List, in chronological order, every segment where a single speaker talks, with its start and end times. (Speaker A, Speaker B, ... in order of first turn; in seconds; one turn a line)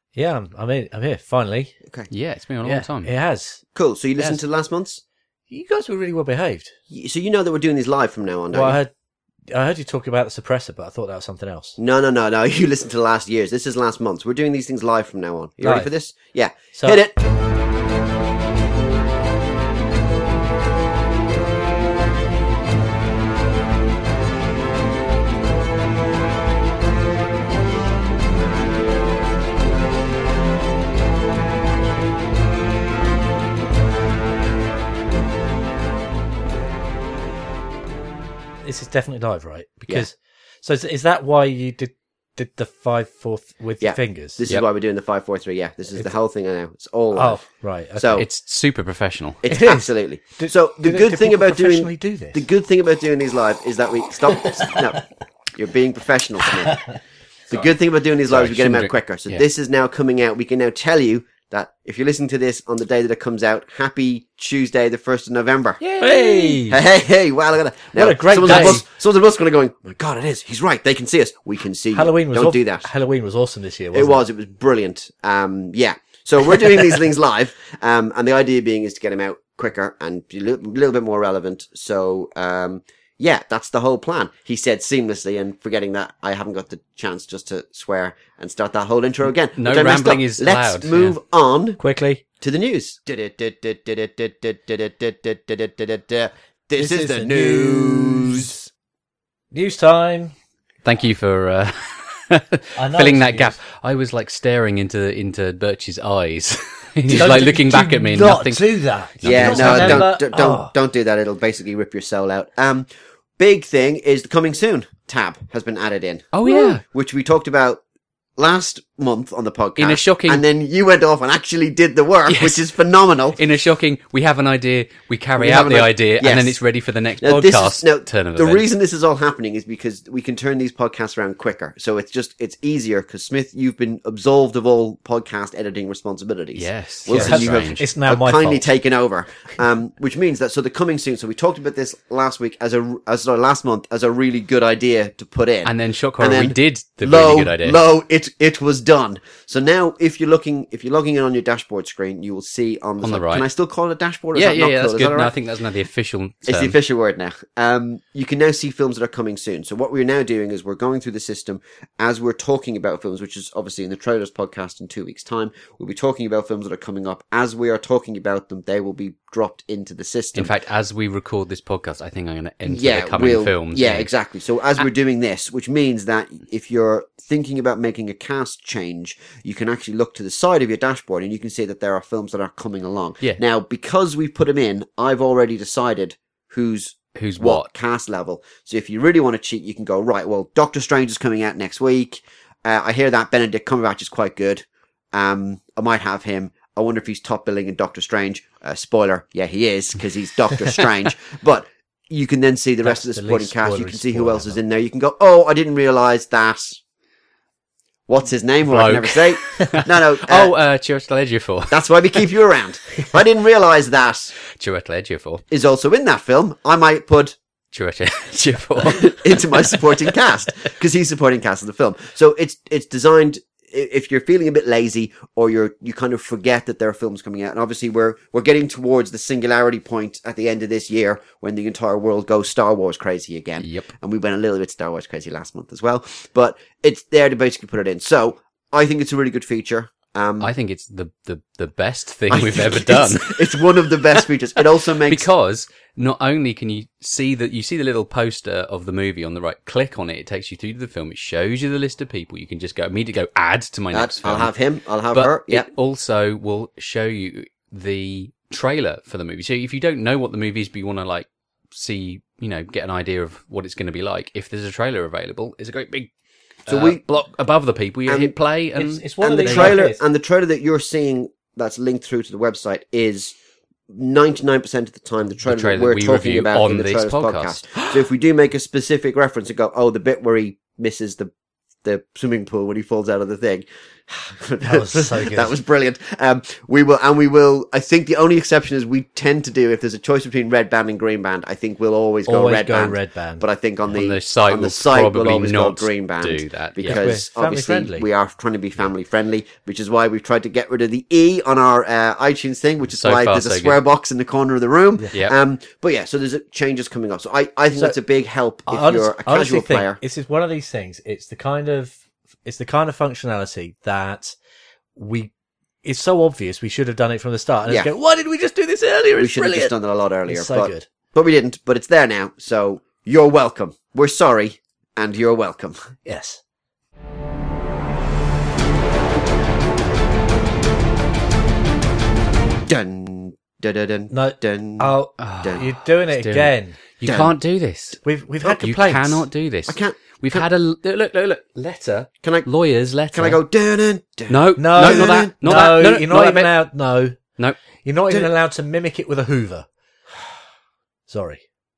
Speaker A: 0.1-1.7
Speaker B: 2.1-3.1
Speaker A: 2.6-3.6
Speaker C: 3.7-5.0
Speaker A: 5.5-6.7
Speaker C: 6.9-8.8
Speaker A: 8.5-8.9
Speaker A: 9.5-11.8
Speaker C: 11.8-17.1
Speaker A: 15.6-15.9
Speaker A: 16.7-17.0
Speaker A: 38.6-44.4
Speaker C: 43.8-47.4
Speaker A: 47.1-48.2
Speaker C: 48.0-48.2
Speaker B: 48.1-49.4
Speaker C: 49.4-56.9
Speaker A: 49.5-52.4
Speaker A: 54.3-54.8
Speaker A: 56.7-57.0
Speaker C: 57.5-65.8
Speaker B: 58.3-59.4
Speaker B: 65.8-66.6
Speaker A: 66.0-66.8
Speaker C: 66.7-72.9
Speaker A: 67.9-68.8
Speaker B: 68.5-68.8
Speaker A: 71.9-74.2
Speaker C: 73.9-91.8
Speaker B: 89.5-91.2
Speaker A: 91.8-92.2
Speaker C: 92.4-98.6
Speaker A: 96.8-98.7
Speaker A: 99.5-100.3
Speaker B: 100.8-110.1
Speaker A: 102.8-103.6
Speaker C: 107.0-107.5
Speaker A: 107.1-110.7
Speaker C: 109.2-112.9
Speaker C: 113.4-117.8
Speaker B: 116.3-116.8
Speaker C: 118.4-123.4
Speaker B: 119.8-120.4
Speaker B: 122.3-122.6
Speaker B: 123.3-128.7
Speaker C: 125.4-126.6
Speaker C: 127.2-155.3
Speaker B: 136.6-137.8
Speaker A: 137.1-138.7
Speaker B: 145.6-147.8
Speaker B: 153.0-153.5
Speaker B: 154.3-156.8
Speaker C: 156.4-170.5
Speaker B: 170.3-174.1
Speaker C: 172.7-206.8
Speaker B: 187.2-187.7
Speaker A: 202.8-204.6
Speaker C: 208.1-210.5
Speaker B: 208.7-212.3
Speaker C: 211.7-214.3
Speaker B: 214.5-215.4
Speaker C: 215.5-217.3
Speaker B: 217.7-220.1
Speaker C: 218.8-240.5
Speaker B: 233.6-233.9
Speaker B: 240.4-254.5
Speaker C: 242.3-245.3
Speaker C: 253.9-255.7
Speaker B: 255.1-266.1
Speaker B: 266.6-269.8
Speaker C: 266.7-267.0
Speaker C: 268.1-268.3
Speaker A: 268.8-270.0
Speaker C: 269.2-273.4
Speaker C: 273.9-281.3
Speaker B: 275.4-278.0
Speaker C: 281.8-310.0
Speaker A: 284.6-285.5
Speaker A: 292.2-293.4
Speaker B: 293.9-297.0
Speaker A: 296.9-298.1
Speaker B: 303.0-303.8
Speaker A: 308.7-314.4
Speaker A: 314.9-315.3
Speaker A: 315.8-319.7
Speaker C: 319.2-325.8
Speaker A: 320.3-320.9
Speaker A: 326.1-326.4
Speaker C: 332.7-335.6
Speaker A: 334.1-336.8
Speaker B: 335.2-343.4
Speaker C: 337.0-337.3
Speaker A: 338.0-339.2
Speaker C: 339.7-340.4
Speaker C: 342.2-342.5
Speaker C: 343.1-346.0
Speaker B: 344.3-346.5
Speaker A: 344.6-347.2
Speaker A: 347.8-349.7
Speaker A: 351.1-351.4